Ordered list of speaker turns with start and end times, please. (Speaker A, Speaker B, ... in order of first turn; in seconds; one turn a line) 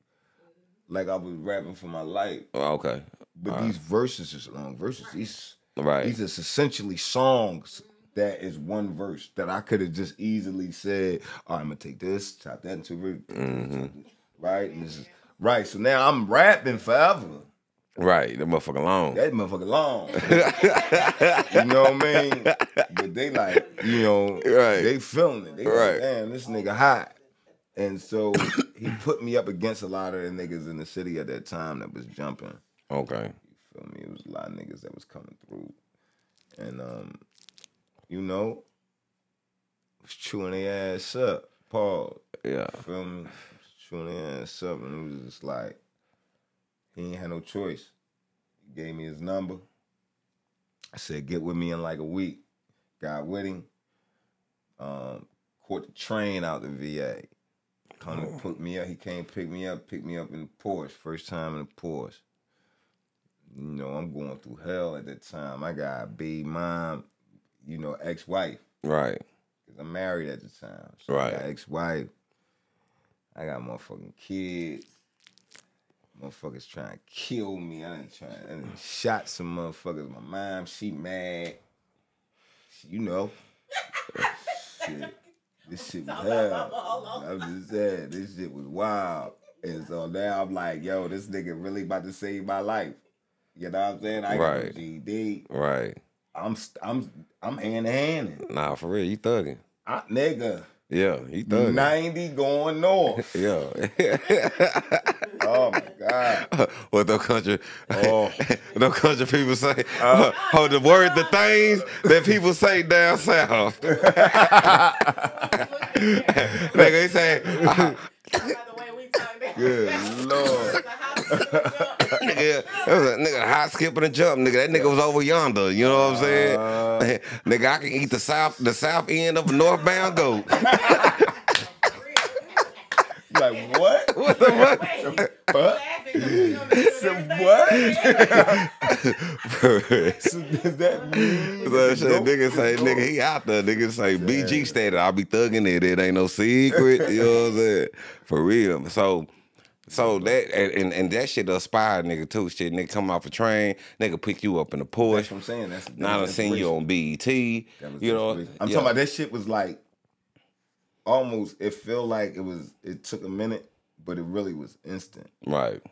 Speaker A: 0.9-2.5
Speaker B: 2.5-3.8
Speaker A: 3.4-17.5
Speaker B: 5.8-6.2
Speaker B: 13.3-13.9
Speaker C: 14.5-15.0
Speaker B: 18.0-19.2
Speaker A: 19.1-20.8
Speaker B: 20.1-22.9
Speaker C: 20.5-21.5
Speaker A: 21.4-27.1
Speaker B: 23.7-24.9
Speaker B: 25.6-26.0
Speaker A: 27.7-32.6
Speaker B: 32.9-33.3
Speaker A: 33.5-35.8
Speaker A: 36.5-37.2
Speaker A: 38.1-38.6
Speaker A: 40.0-42.2
Speaker B: 42.4-42.8
Speaker A: 42.7-45.8
Speaker A: 46.9-47.9
Speaker A: 48.6-49.6
Speaker A: 50.9-52.4
Speaker A: 53.0-53.7
Speaker A: 54.8-57.3
Speaker A: 58.0-62.2
Speaker B: 58.1-58.3
Speaker A: 63.5-67.1
Speaker A: 67.6-68.6
Speaker B: 68.8-69.2
Speaker A: 69.6-72.1
Speaker B: 71.1-71.4
Speaker A: 73.3-74.9
Speaker A: 76.1-81.6
Speaker A: 82.7-83.3
Speaker A: 84.2-85.1
Speaker C: 84.8-85.1
Speaker A: 85.7-93.0
Speaker C: 85.9-87.4
Speaker C: 89.6-89.9
Speaker A: 93.5-95.4
Speaker B: 94.3-94.8
Speaker B: 95.5-96.0
Speaker A: 96.3-98.5
Speaker B: 98.5-99.6
Speaker A: 99.8-100.7
Speaker B: 100.9-101.9
Speaker A: 101.5-103.5
Speaker B: 103.2-105.2
Speaker A: 105.4-106.4
Speaker C: 105.4-105.8
Speaker B: 106.2-114.8
Speaker A: 107.9-108.4
Speaker A: 110.0-110.4
Speaker C: 110.1-111.7
Speaker A: 111.8-112.1
Speaker C: 113.8-123.2
Speaker A: 113.9-115.5
Speaker B: 115.9-118.6
Speaker A: 116.2-118.0
Speaker A: 119.5-122.4
Speaker B: 122.1-131.4
Speaker A: 124.7-125.0
Speaker A: 125.8-127.2
Speaker C: 129.6-138.7
Speaker A: 130.5-131.2
Speaker A: 133.2-138.8
Speaker B: 134.1-135.3
Speaker B: 136.7-137.0
Speaker B: 137.7-140.2
Speaker C: 139.9-141.9
Speaker A: 140.2-143.1
Speaker B: 141.1-149.3
Speaker A: 144.0-144.8
Speaker A: 146.8-147.4
Speaker A: 149.9-150.4
Speaker B: 149.9-155.3
Speaker A: 155.0-156.7
Speaker B: 155.9-158.9
Speaker A: 157.8-159.8
Speaker A: 161.0-165.3
Speaker B: 165.4-165.8